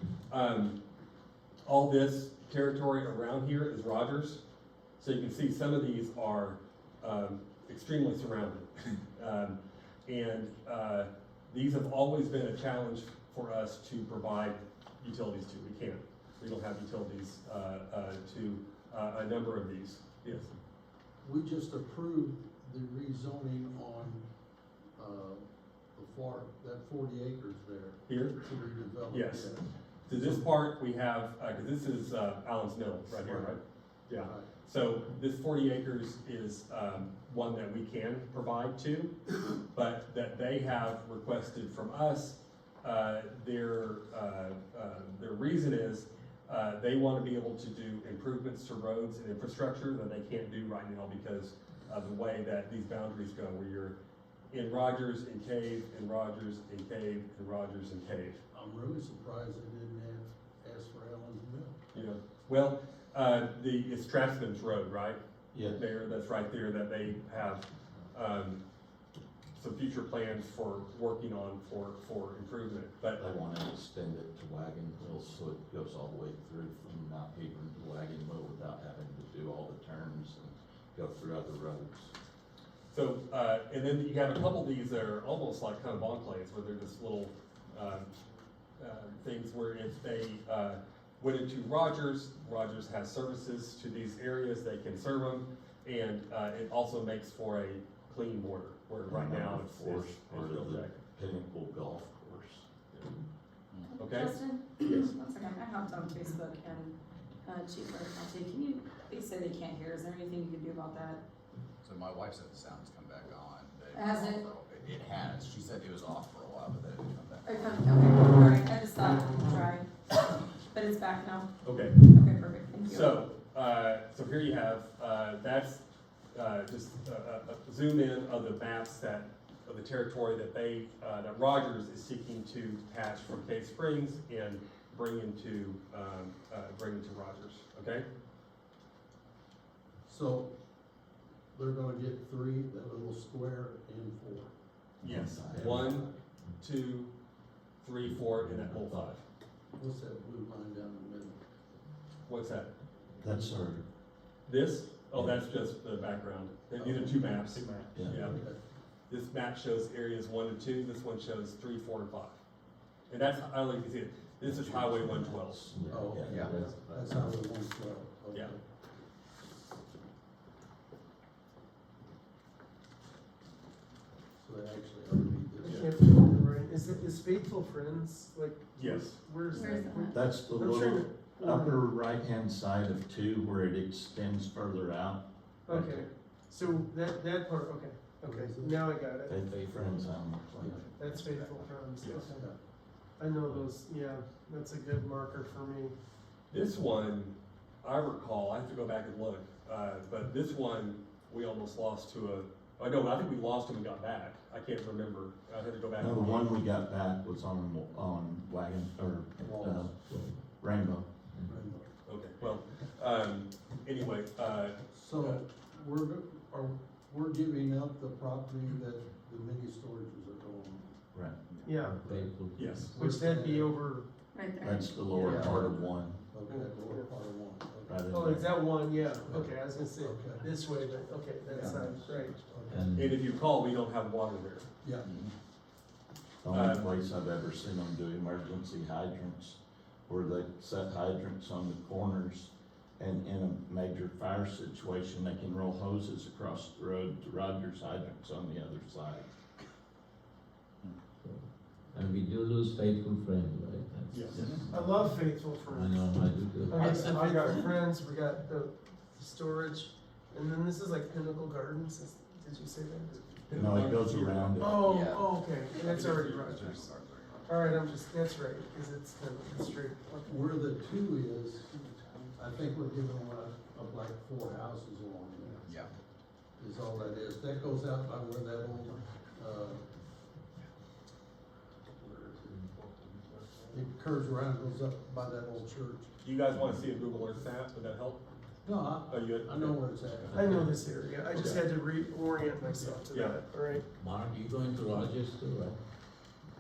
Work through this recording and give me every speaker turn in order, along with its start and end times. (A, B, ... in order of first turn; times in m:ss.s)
0:00.3-0:00.8 A
0:01.7-0:04.4 A
0:05.0-0:20.5 A
0:21.2-0:24.3 B
0:25.0-0:30.5 B
0:28.1-0:28.4 A
0:29.1-0:29.5 A
0:30.1-0:54.0 A
0:33.1-0:33.6 B
0:34.2-0:34.5 B
0:54.5-0:58.4 A
0:58.5-1:01.8 B
1:01.9-1:08.6 A
1:05.5-1:05.9 C
1:09.6-1:13.2 A
1:13.2-1:22.1 C
1:22.9-1:28.1 A
1:28.8-1:41.0 A
1:39.1-1:42.7 C
1:43.7-1:44.0 D
1:43.9-1:51.2 E
1:44.0-1:45.1 A
1:51.8-1:57.5 D
1:53.9-1:54.5 E
1:57.4-2:01.5 E
2:01.6-2:02.1 A
2:02.0-2:03.2 E
2:02.9-2:18.1 A
2:20.1-2:20.5 B
2:21.5-2:24.5 B
2:25.0-2:26.1 A
2:25.0-2:25.8 C
2:25.4-2:26.2 B
2:26.6-2:27.1 A
2:27.8-2:29.2 A
2:28.1-2:29.1 C
2:29.8-2:31.4 B
2:32.3-2:32.7 A
2:33.2-2:33.8 C
2:34.5-2:38.4 A
2:35.1-2:35.4 C
2:36.8-2:38.6 B
2:37.6-2:38.3 C
2:39.1-2:42.4 A
2:43.1-2:45.7 A
2:44.4-2:47.2 C
2:45.9-2:46.6 F
2:45.9-2:48.6 B
2:46.5-2:46.7 G
2:54.4-2:56.0 B
2:55.6-3:01.8 G
2:55.6-2:55.9 A
2:58.8-2:59.2 A
2:59.5-3:00.2 E
3:00.1-3:06.1 C
3:05.6-3:09.4 G
3:08.2-3:08.8 B
3:09.3-3:10.9 C
3:09.4-3:09.9 F
3:11.0-3:12.4 G
3:12.2-3:12.6 B
3:13.2-3:16.0 G
3:16.5-3:26.6 A
3:26.0-3:30.0 C
3:29.4-3:29.9 B
3:29.5-3:30.4 F
3:30.6-3:31.1 C
3:31.3-3:31.6 F
3:31.5-3:31.9 B
3:32.1-3:35.4 A
3:34.9-3:41.0 B
3:41.1-3:41.4 C
3:41.5-3:41.8 D
3:41.6-3:42.0 G
3:41.7-3:43.0 F
3:42.0-3:43.8 B
3:42.6-3:42.9 A
3:43.0-3:44.6 G
3:44.3-3:44.9 E
3:44.6-3:46.3 C
3:45.1-3:48.1 B
3:46.5-3:47.1 G
3:47.9-3:48.6 C
3:48.1-3:52.4 G
3:49.0-3:50.5 B
3:51.5-3:52.9 B
3:52.7-3:53.2 F
3:52.9-3:54.7 A
3:54.8-3:55.1 B
3:55.0-3:55.3 D
3:56.4-4:09.3 C
3:56.5-3:56.9 A
4:11.2-4:17.1 F
4:14.1-4:14.5 A
4:14.7-4:16.0 G
4:16.7-4:23.2 G
4:16.7-4:17.7 A
4:23.5-4:24.9 A
4:23.5-4:24.7 C
4:24.6-4:26.9 G
4:24.8-4:25.4 D
4:25.8-4:26.5 A
4:26.3-4:27.6 D
4:27.5-4:30.4 G
4:30.2-4:31.8 B
4:32.4-4:35.7 B
4:35.7-4:35.9 D
4:36.6-4:39.9 B
4:43.7-4:46.1 B
4:46.2-4:48.2 A
4:48.6-4:50.7 B
4:49.1-4:50.4 A
4:50.3-4:53.9 G
4:50.4-4:50.6 F
4:51.3-4:51.7 A
4:52.8-4:53.4 A
4:54.0-4:55.8 F